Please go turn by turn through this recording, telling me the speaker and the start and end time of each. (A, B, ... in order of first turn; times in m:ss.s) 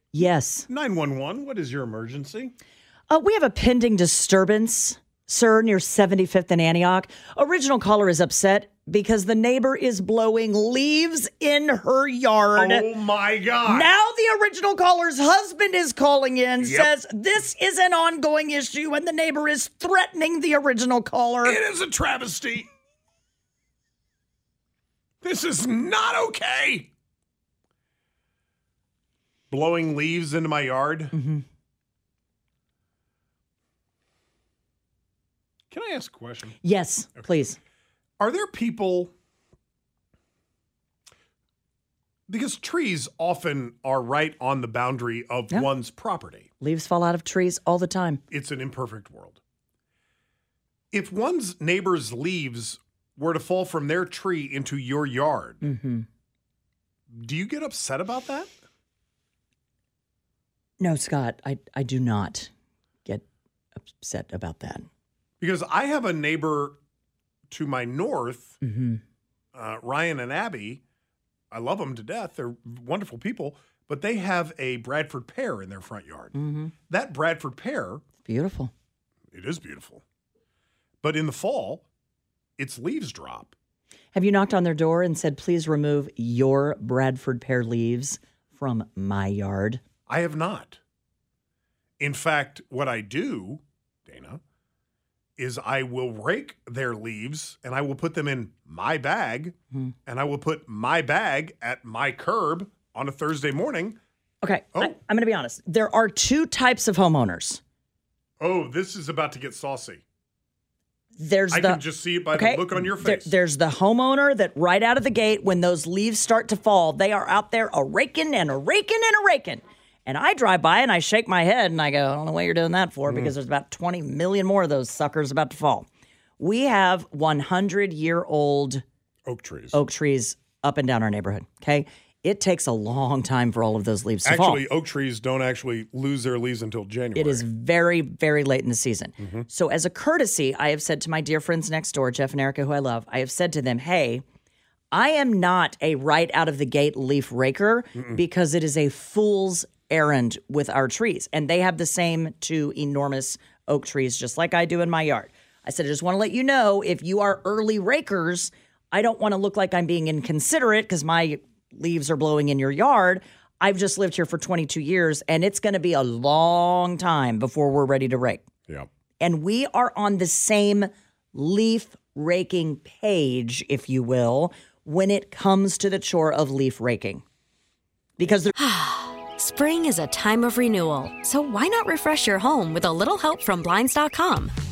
0:00.1-0:00.7 A
0:00.7-0:02.5 B
0:03.1-0:12.8 A
0:12.6-0:13.9 B
0:13.6-0:21.6 A
0:16.6-0:16.9 B
0:21.4-0:22.7 B
0:25.2-0:26.9 B
0:29.5-0:31.1 B
0:31.1-0:31.4 A
0:35.7-0:36.5 B
0:36.6-0:37.6 A
0:38.2-0:39.1 B
0:42.3-0:46.5 B
0:46.6-0:48.2 A
0:48.3-0:49.4 B
0:50.9-0:55.6 B
0:55.6-0:56.1 A
0:57.1-0:58.5 B
1:00.8-1:02.5 A
1:03.8-1:04.9 A
1:05.4-1:06.8 B
1:07.5-1:08.6 B
1:08.6-1:09.0 A
1:09.5-1:10.8 B
1:11.5-1:16.3 B
1:16.3-1:16.7 A
1:16.9-1:18.0 B
1:18.2-1:18.7 A
1:19.3-1:20.0 B
1:21.0-1:21.8 B
1:22.6-1:23.5 B
1:24.1-1:29.8 A
1:30.1-1:30.8 B
1:32.0-1:34.4 B
1:35.4-1:39.5 B
1:40.0-1:44.0 B
1:44.4-1:47.6 A
1:48.4-1:50.0 B
1:51.2-2:05.9 A
1:51.5-1:53.3 B
2:03.1-2:03.3 B
2:06.4-2:08.8 A
2:09.2-2:09.8 B
2:09.7-2:14.6 A
2:14.2-2:17.4 B
2:17.1-2:24.2 A
2:19.2-2:19.5 B
2:24.9-2:48.4 A
2:27.9-2:28.2 B
2:49.2-2:57.2 A
2:58.2-2:58.5 A
2:58.6-3:04.5 C